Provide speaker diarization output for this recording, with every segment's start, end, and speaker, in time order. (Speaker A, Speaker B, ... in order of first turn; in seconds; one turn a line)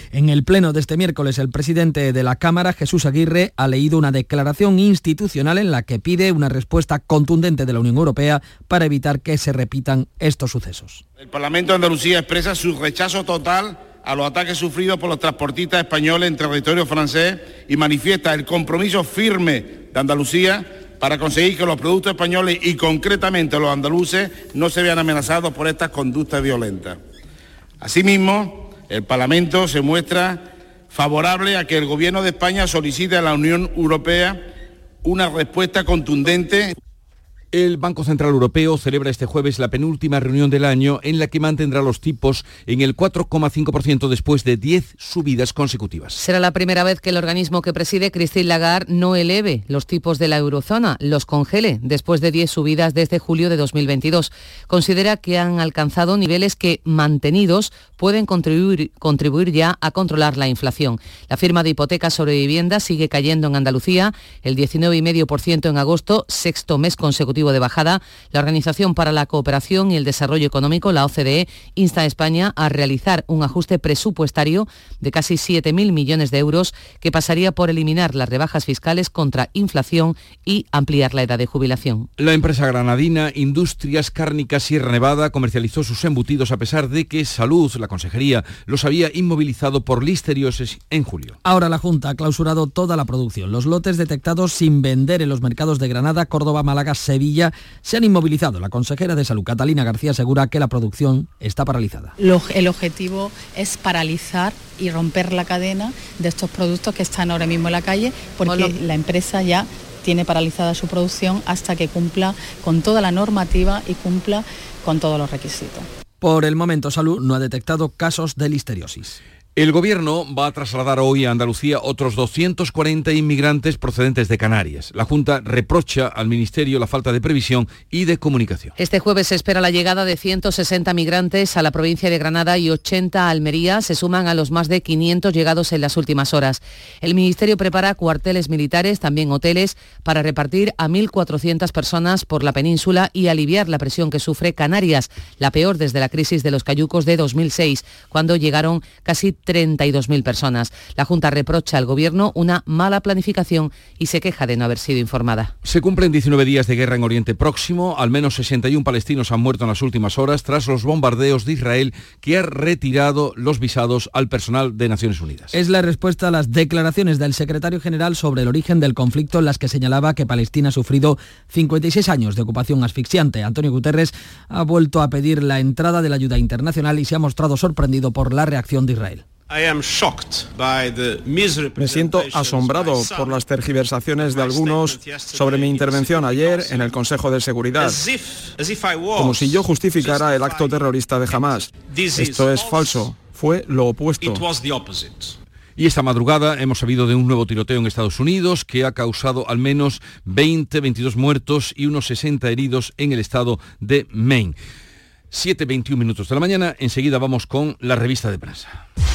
Speaker A: 0.1-11.0
Speaker B: 11.2-27.0
Speaker B: 27.8-34.4
Speaker B: 35.0-36.8
Speaker C: 37.5-46.2
Speaker D: 46.2-82.1
Speaker C: 82.2-91.4
Speaker A: 91.4-102.2
Speaker E: 102.2-115.9
Speaker A: 116.2-119.2
Speaker C: 119.6-128.7
Speaker D: 128.8-155.5
Speaker C: 155.6-165.5
Speaker A: 165.5-179.2
Speaker F: 181.8-188.0
Speaker F: 189.1-194.5
Speaker C: 195.8-204.6
Speaker C: 205.3-208.8